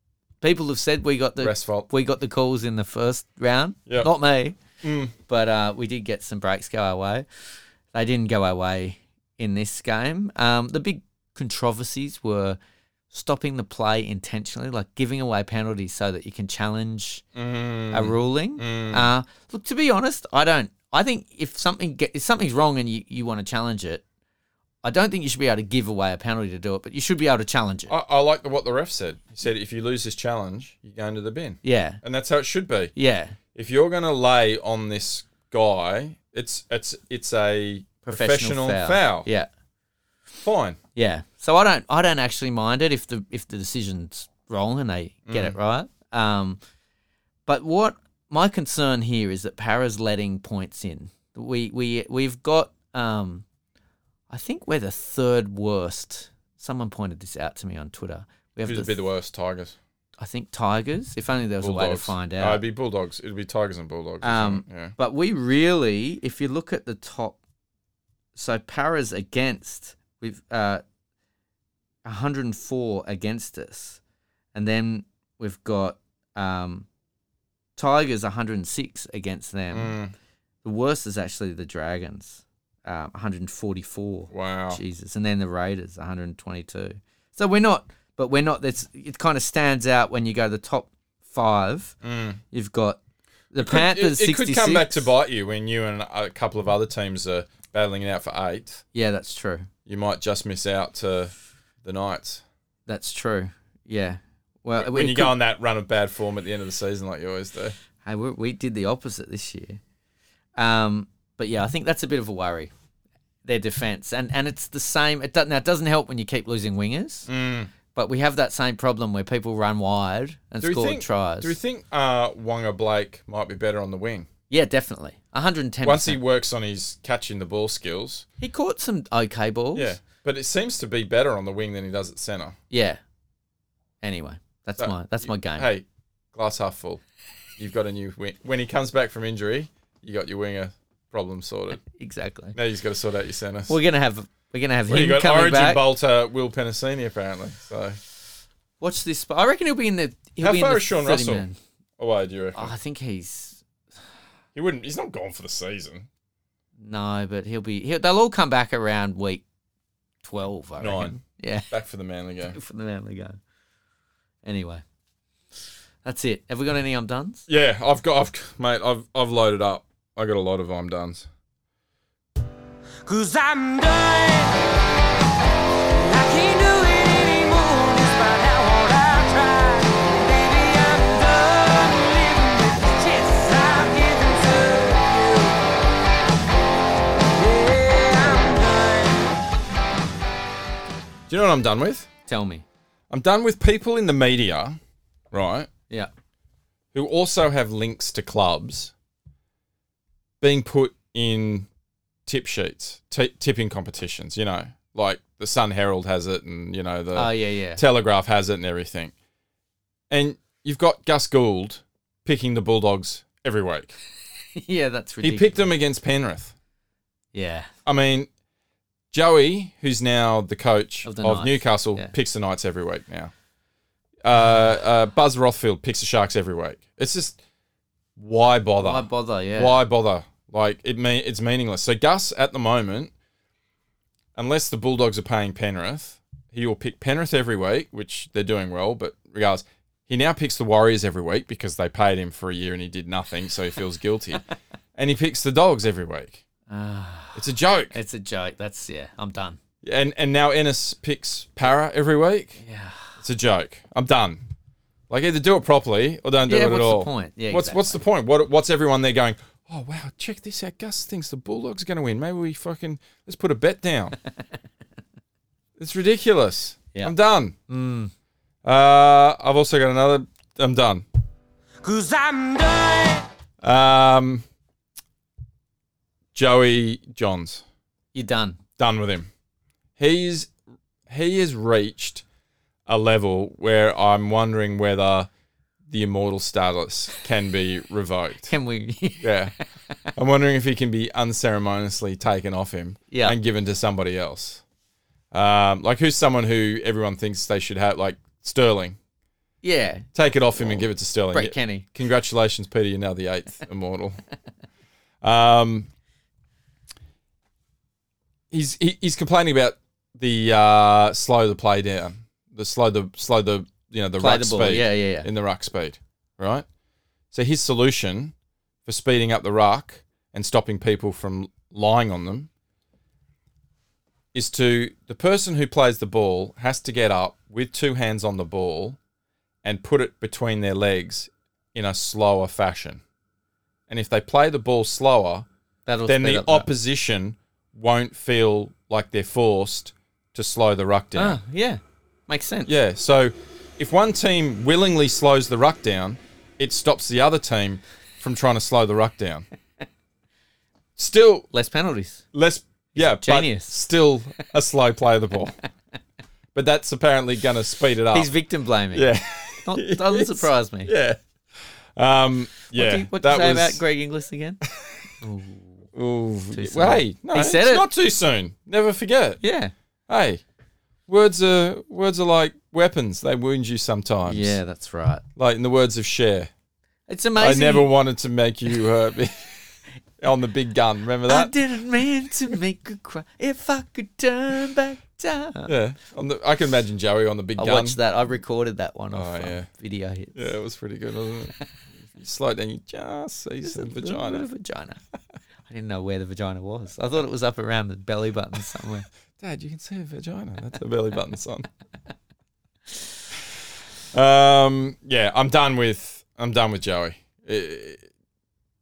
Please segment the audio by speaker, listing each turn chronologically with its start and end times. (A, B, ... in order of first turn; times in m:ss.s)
0:00.4-0:04.6 A
0:01.4-0:01.9 B
0:04.8-0:05.1 B
0:05.2-0:07.3 A
0:07.9-0:12.6 A
0:13.1-0:17.2 A
0:17.4-0:19.1 B
0:17.9-0:24.0 A
0:24.8-0:27.9 A
0:27.9-0:32.9 B
0:31.6-0:32.0 A
0:33.0-0:33.4 A
0:33.6-0:39.3 B
0:38.1-0:39.5 A
0:40.4-0:40.8 B
0:41.0-0:46.6 A
0:45.3-0:45.6 B
0:47.5-0:53.4 A
0:54.3-0:59.0 A
0:58.6-0:59.8 B
1:00.2-1:02.6 A
1:01.6-1:04.9 B
1:04.2-1:07.4 A
1:08.4-1:10.8 A
1:12.0-1:14.0 A
1:14.5-1:16.9 A
1:17.8-1:20.0 A
1:19.7-1:20.1 B
1:20.6-1:32.0 A
1:24.3-1:24.8 B
1:32.0-1:32.4 B
1:32.5-1:33.0 A
1:33.5-1:35.1 A
1:33.6-1:38.8 B
1:38.9-1:39.7 A
1:39.9-1:42.4 B
1:42.9-1:45.4 A
1:44.8-1:47.8 B
1:48.0-1:49.8 A
1:50.6-1:52.7 A
1:53.4-1:57.3 A
1:57.3-1:57.7 B
1:57.9-2:01.6 A
2:00.6-2:04.3 B
2:04.5-2:06.2 A
2:05.8-2:08.3 B
2:08.4-2:09.9 A
2:09.8-2:12.6 B
2:12.7-2:13.0 A
2:14.0-2:15.7 A
2:14.8-2:17.0 B
2:17.6-2:21.8 B
2:21.8-2:22.6 A
2:22.5-2:23.8 B
2:23.7-2:25.8 A
2:24.9-2:28.0 B
2:28.8-2:31.6 A
2:30.4-2:31.5 B
2:32.0-2:32.7 B
2:32.6-2:33.6 A
2:34.6-2:36.1 B
2:36.8-2:39.4 A
2:40.2-2:41.7 A
2:40.8-2:41.2 B
2:41.7-2:42.6 B
2:42.4-2:43.4 A
2:44.4-2:44.8 A
2:46.0-2:47.5 A
2:47.5-2:51.3 B
2:53.1-2:54.5 C
2:53.2-2:53.6 A
2:56.0-3:05.2 A
2:56.0-3:05.3 C
3:07.4-3:09.1 A
3:11.3-3:12.1 B
3:12.3-3:12.6 A
3:13.1-3:14.8 B
3:15.3-3:15.7 B
3:16.9-3:18.9 B
3:20.4-3:21.7 B
3:22.3-3:29.1 B
3:27.2-3:27.8 A
3:30.1-3:34.0 B
3:34.6-3:35.7 A
3:35.2-3:36.5 B
3:37.3-3:37.7 A
3:37.8-3:38.3 B
3:39.1-3:43.3 B
3:41.0-3:42.1 A
3:44.2-3:47.4 B
3:48.2-3:53.1 B
3:48.8-3:49.8 A
3:54.4-4:04.4 B
4:05.0-4:06.4 B
4:06.7-4:09.6 A
4:07.4-4:08.0 B
4:09.8-4:12.6 B
4:12.6-4:13.1 A
4:13.2-4:14.4 B
4:15.1-4:24.2 B
4:16.5-4:18.0 A
4:25.8-4:27.6 B
4:27.7-4:28.1 A
4:28.6-4:31.0 B
4:31.9-4:32.7 A
4:31.9-4:33.2 C
4:33.6-4:34.4 B
4:36.3-4:37.6 B
4:38.1-4:38.6 A
4:38.8-4:39.3 B
4:40.0-4:40.5 B
4:41.1-4:42.2 B
4:42.9-4:45.3 B
4:45.9-4:48.5 B
4:48.5-4:49.5 A
4:49.2-4:49.5 B
4:50.2-4:54.6 B
4:53.1-4:53.4 A
4:55.3-4:59.0 B
4:59.6-5:01.9 A
5:00.2-5:04.2 B
5:05.2-5:05.9 B
5:08.5-5:16.6 B
5:14.2-5:15.3 A
5:17.3-5:18.3 B
5:18.9-5:22.5 B
5:24.3-5:29.0 B
5:29.6-5:33.0 B
5:33.9-5:35.5 B
5:35.9-5:36.7 A
5:36.1-5:41.4 B
5:41.2-5:42.7 A
5:42.7-5:49.5 B
5:51.0-5:51.5 B
5:51.5-5:52.2 A
5:52.3-5:55.6 B
5:52.9-5:53.8 A
5:56.6-5:58.3 B
5:58.1-6:00.9 A
5:58.9-6:01.2 B
6:02.0-6:03.8 B
6:02.7-6:04.6 A
6:05.2-6:05.8 A
6:05.9-6:09.4 B
6:06.5-6:07.9 A
6:09.4-6:09.7 A
6:10.1-6:10.4 B
6:11.1-6:14.6 B
6:14.3-6:15.2 A
6:15.4-6:16.5 B
6:17.1-6:17.9 A
6:17.4-6:21.5 B
6:21.3-6:25.7 A
6:25.7-6:28.0 B
6:27.6-6:30.5 A
6:29.1-6:29.7 B
6:30.4-6:31.5 B
6:32.0-6:34.5 B
6:33.6-6:35.0 A
6:35.7-6:39.1 A
6:39.4-6:41.7 B
6:44.1-6:48.0 B